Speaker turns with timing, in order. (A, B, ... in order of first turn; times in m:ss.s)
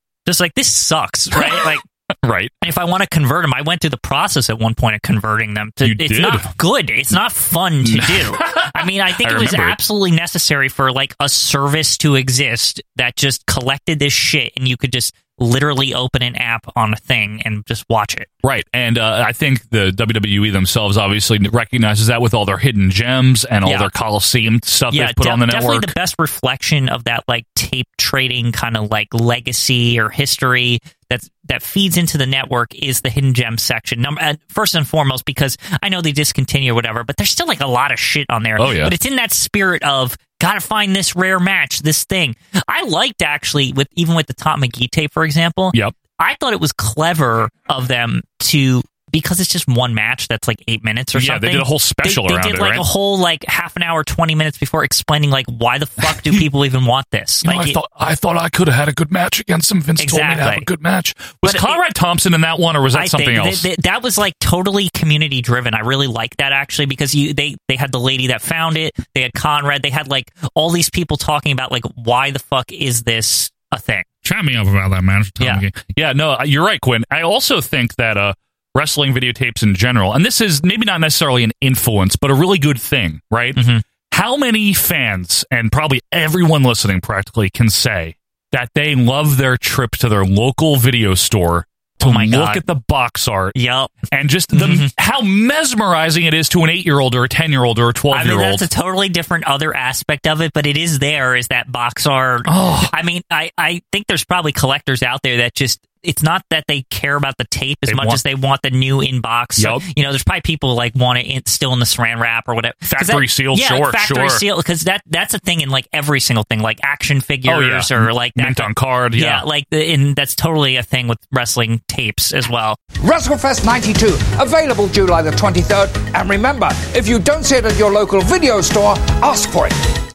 0:00.3-0:01.8 A
0:01.3-0:02.5 B
0:02.6-0:18.3 A
0:05.8-0:06.5 B
0:07.8-0:09.8 B
0:18.4-0:25.9 B
0:23.6-0:23.9 A
0:24.9-0:57.8 A
0:38.6-0:38.9 B
0:51.2-0:52.8 B
0:56.0-0:56.4 B
0:57.4-1:03.7 B
1:00.0-1:00.7 A
1:01.4-1:01.8 A
1:02.9-1:14.1 A
1:14.2-1:33.6 B
1:23.6-1:23.8 A
1:32.0-1:32.6 A
1:33.6-1:33.9 A
1:34.1-1:38.7 B
1:34.5-1:34.9 A
1:38.1-2:02.8 A
1:42.5-1:42.9 B
1:47.9-1:48.2 B
1:49.6-1:49.8 B
1:52.8-1:54.4 B
1:57.5-1:59.4 B
2:03.0-2:09.8 C